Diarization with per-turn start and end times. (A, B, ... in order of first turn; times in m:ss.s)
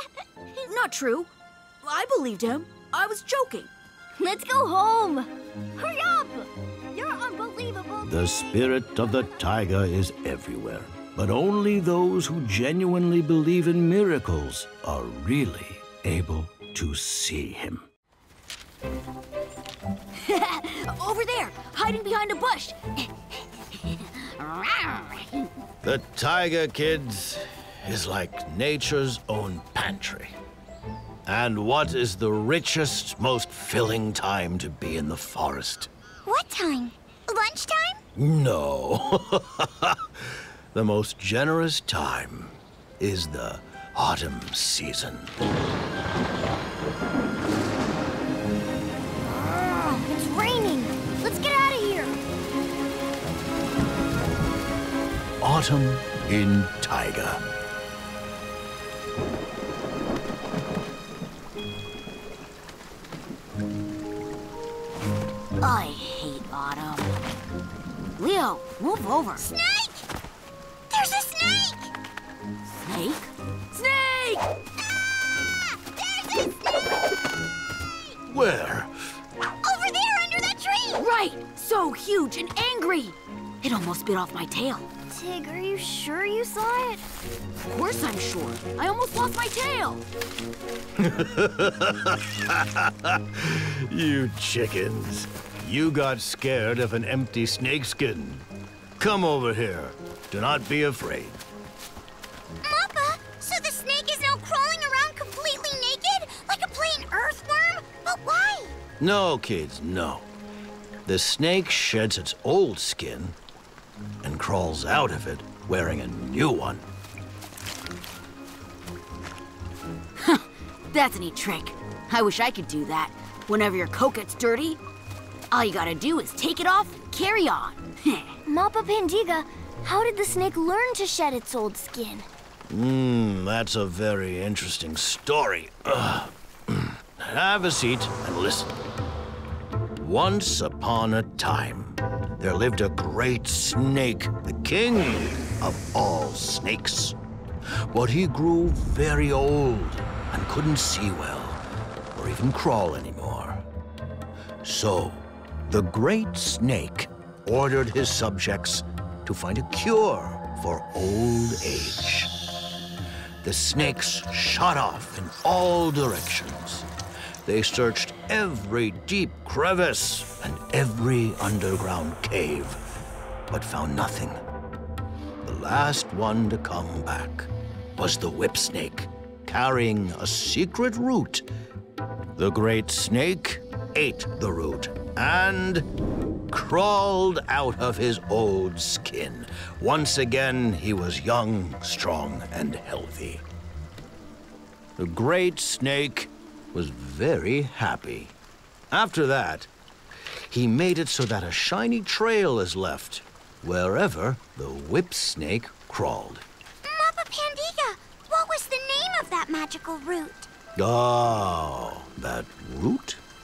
0:00.6-0:01.3 A
0:01.8-0:03.7 A
0:04.2-0:08.6 B
0:08.0-0:17.9 C
0:20.2-0:23.1 A
0:23.8-0:25.5 A
0:25.8-0:30.4 C
0:31.3-0:35.9 C
0:36.3-0:38.0 D
0:38.2-0:45.4 C
0:49.2-0:52.1 B
0:55.4-0:57.4 C
1:05.6-1:07.2 A
1:08.2-1:09.5 A
1:09.4-1:10.0 D
1:10.9-1:11.9 D
1:12.8-1:14.5 A
1:16.0-1:16.8 D
1:18.3-1:18.9 C
1:19.6-1:21.0 D
1:21.0-1:24.9 A
1:25.1-1:27.0 B
1:27.7-1:30.0 A
1:31.0-1:38.5 C
1:39.0-1:41.4 C
1:42.6-1:48.8 D
1:49.0-1:50.3 C
1:51.1-1:53.4 C
1:54.2-1:56.8 C
2:00.2-2:04.8 A
2:05.5-2:08.4 A
2:08.5-2:12.3 B
2:12.7-2:18.7 C
2:20.0-2:27.2 C
2:27.9-2:31.6 C
2:32.1-2:33.6 C
2:34.6-2:42.3 C
2:43.4-2:46.9 C
2:47.5-2:52.8 C
2:53.5-2:54.4 C
2:55.4-3:01.5 C
3:02.4-3:05.9 C
3:06.5-3:13.4 C
3:15.0-3:18.3 C
3:18.9-3:19.7 C
3:20.5-3:26.4 C
3:26.8-3:30.5 D
3:30.8-3:33.2 C